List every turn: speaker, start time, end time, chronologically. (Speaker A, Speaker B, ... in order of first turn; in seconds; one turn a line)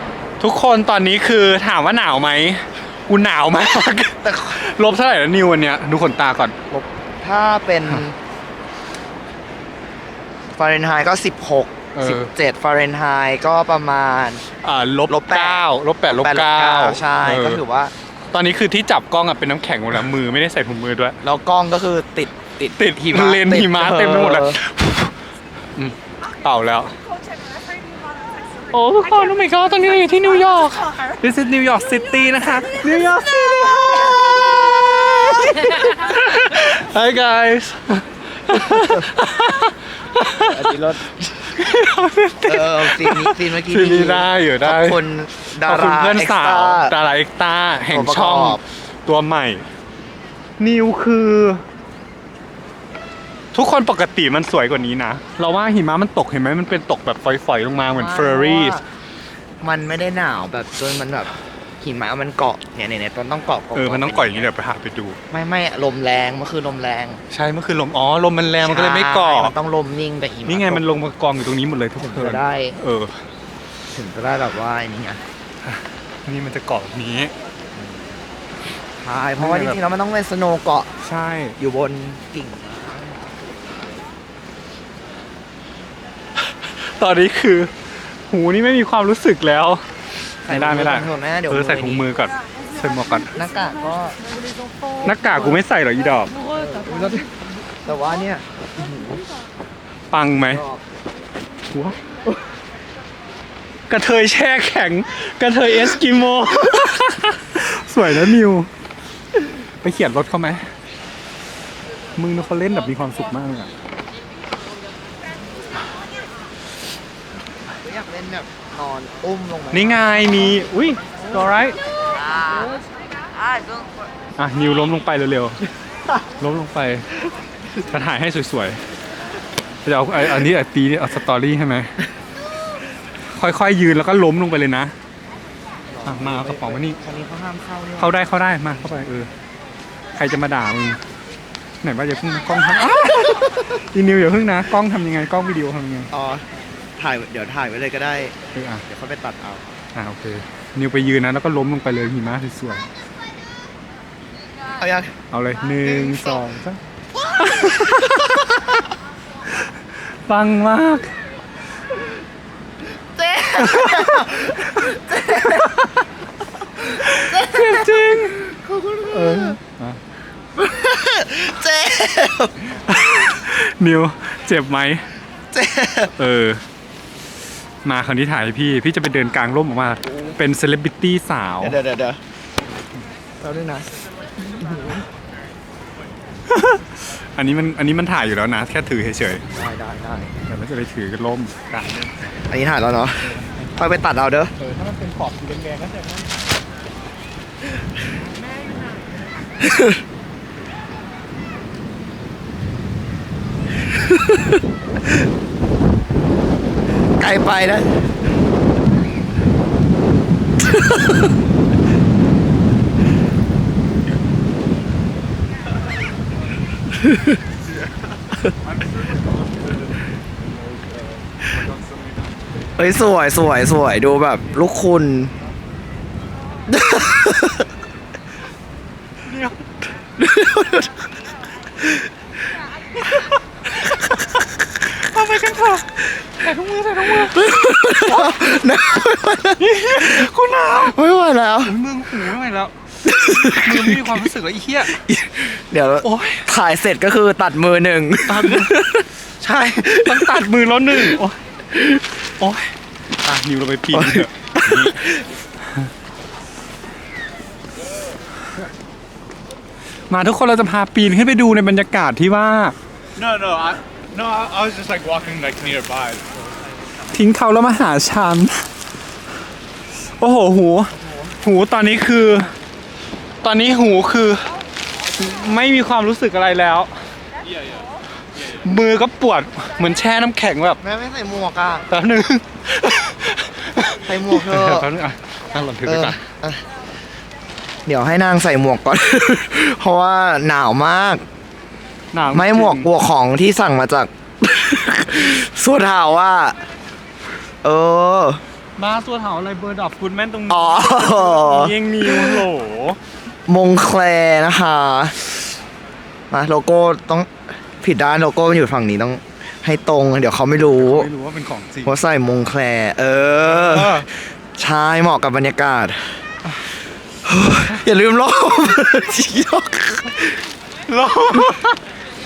Speaker A: 0.4-6.6
Speaker B: 4.2-4.5
Speaker B: 6.7-8.2
Speaker B: 10.6-14.4
Speaker A: 11.9-12.3
Speaker A: 14.6-17.6
Speaker B: 15.1-17.9
Speaker A: 18.3-21.2
Speaker B: 21.2-24.6
Speaker A: 22.8-25.1
Speaker A: 25.8-27.0
Speaker A: 28.7-40.7
Speaker B: 40.4-41.1
Speaker A: 41.2-45.0
Speaker B: 42.4-46.9
Speaker A: 45.5-49.7
Speaker B: 47.9-48.6
Speaker A: 50.6-51.6
Speaker A: 53.5-58.8
Speaker B: 57.9-58.8
Speaker B: 59.6-64.5
Speaker A: 63.8-65.2
Speaker B: 65.3-67.2
Speaker A: 67.3-69.5
Speaker B: 68.6-70.8
Speaker A: 70.5-73.2
Speaker B: 72.0-72.8
Speaker B: 73.9-75.2
Speaker A: 75.7-77.3
Speaker B: 77.7-78.0
Speaker B: 79.0-80.9
Speaker A: 79.4-79.8
Speaker A: 81.0-81.6
Speaker B: 81.6-83.8
Speaker A: 86.5-87.7
Speaker A: 88.3-89.8
Speaker A: 90.5-93.3
Speaker B: 90.5-92.1
Speaker B: 93.3-94.2
Speaker A: 95.0-96.4
Speaker B: 96.4-97.3
Speaker B: 97.8-99.2
Speaker A: 100.1-100.6
Speaker B: 100.5-100.8
Speaker A: 101.7-102.0
Speaker A: 103.9-108.7
Speaker A: 109.8-110.7
Speaker A: 112.2-113.7
Speaker B: 117.8-120.6
Speaker A: 119.7-121.8
Speaker B: 122.1-122.8
Speaker B: 123.3-123.9
Speaker A: 124.4-125.6
Speaker A: 126.4-127.1
Speaker A: 127.9-128.8
Speaker A: 129.8-131.9
Speaker A: 133.3-134.9
Speaker B: 135.9-138.1
Speaker A: 136.1-137.0
Speaker A: 138.0-139.3
Speaker A: 140.1-141.0
Speaker A: 141.8-146.1
Speaker B: 146.1-146.5
Speaker B: 147.0-149.8
Speaker A: 148.6-148.8
Speaker A: 149.9-152.9
Speaker B: 154.8-155.1
Speaker A: 155.3-158.7
Speaker B: 155.8-156.4
Speaker A: 159.5-161.2
Speaker B: 163.1-165.8
Speaker A: 163.6-165.9
Speaker B: 166.8-169.6
Speaker A: 166.9-168.4
Speaker A: 169.1-170.0
Speaker B: 170.6-172.5
Speaker A: 172.8-175.1
Speaker B: 175.5-176.1
Speaker A: 176.2-176.6
Speaker A: 177.8-181.8
Speaker B: 181.6-182.2
Speaker B: 183.4-185.1
Speaker A: 186.5-186.8
Speaker A: 187.4-189.4
Speaker B: 189.5-190.3
Speaker A: 190.5-192.1
Speaker B: 192.5-194.5
Speaker A: 193.2-193.7
Speaker A: 194.6-196.3
Speaker B: 199.6-200.0
Speaker B: 204.1-204.4
Speaker B: 207.2-207.9
Speaker B: 216.9-217.4
Speaker B: 222.8-225.3
Speaker B: 226.7-227.7
Speaker A: 229.2-229.7
Speaker B: 230.2-231.1
Speaker B: 231.8-232.1
Speaker A: 234.8-238.4
Speaker B: 237.2-241.7
Speaker A: 239.6-241.0
Speaker A: 241.7-245.0
Speaker B: 243.1-244.2
Speaker B: 244.9-249.1
Speaker A: 246.0-246.5
Speaker A: 248.3-248.7
Speaker A: 249.4-251.4
Speaker B: 249.9-250.4
Speaker B: 250.9-251.2
Speaker B: 251.7-252.0
Speaker A: 252.4-255.9
Speaker B: 253.9-255.3
Speaker A: 260.1-262.8
Speaker C: 263.2-266.4
Speaker A: 267.1-268.7
Speaker A: 270.2-272.5
Speaker B: 270.9-271.4
Speaker A: 273.4-274.5
Speaker A: 275.2-276.9
Speaker C: 277.5-278.6
Speaker A: 278.6-280.8
Speaker B: 280.8-281.9
Speaker A: 281.9-286.2
Speaker B: 284.1-284.9
Speaker B: 285.9-286.6
Speaker B: 287.9-291.2
Speaker A: 292.1-292.9
Speaker B: 292.3-296.6
Speaker B: 297.6-298.4
Speaker A: 298.8-303.0
Speaker B: 300.5-302.5
Speaker B: 303.5-305.2
Speaker B: 306.3-311.1
Speaker A: 310.6-312.0
Speaker B: 311.9-316.2
Speaker A: 313.4-314.1
Speaker B: 317.2-320.4
Speaker A: 320.9-321.8